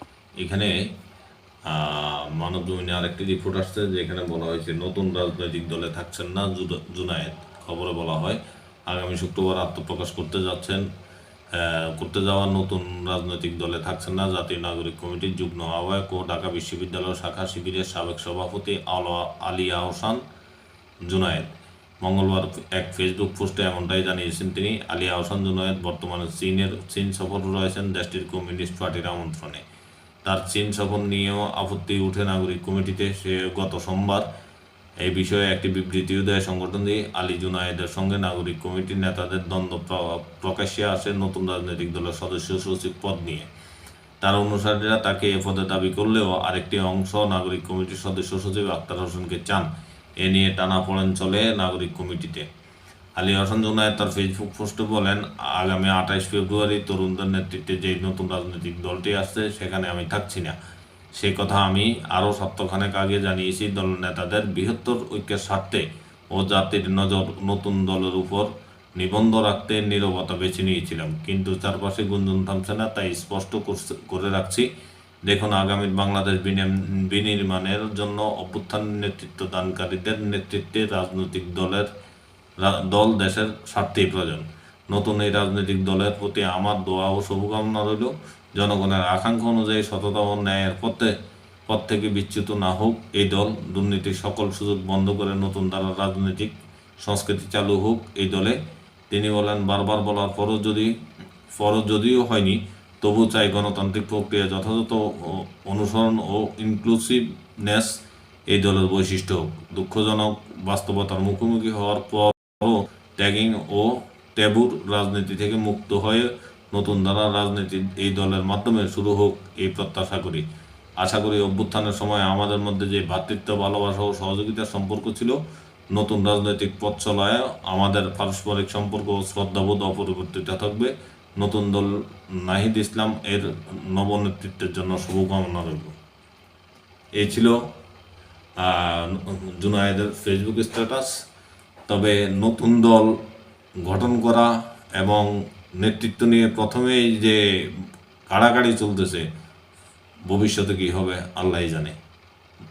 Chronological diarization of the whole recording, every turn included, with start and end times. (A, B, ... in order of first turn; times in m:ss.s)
0:00.4-0:00.9 A
0:01.6-0:10.8 A
0:11.5-0:20.2 A
0:21.0-0:29.6 A
0:30.2-0:34.2 A
0:35.0-0:43.5 A
0:44.2-0:49.7 A
0:50.2-0:52.5 A
0:53.2-1:00.6 A
1:01.1-1:14.7 A
1:15.3-1:21.9 A
1:22.6-1:31.1 A
1:31.7-1:38.6 A
1:39.1-1:40.9 A
1:41.5-1:47.9 A
1:48.5-2:00.4 A
2:01.0-2:05.4 A
2:05.9-2:16.0 A
2:17.2-2:17.6 A
2:18.6-2:21.1 A
2:21.9-2:23.2 A
2:23.8-2:29.2 A
2:30.2-2:32.0 A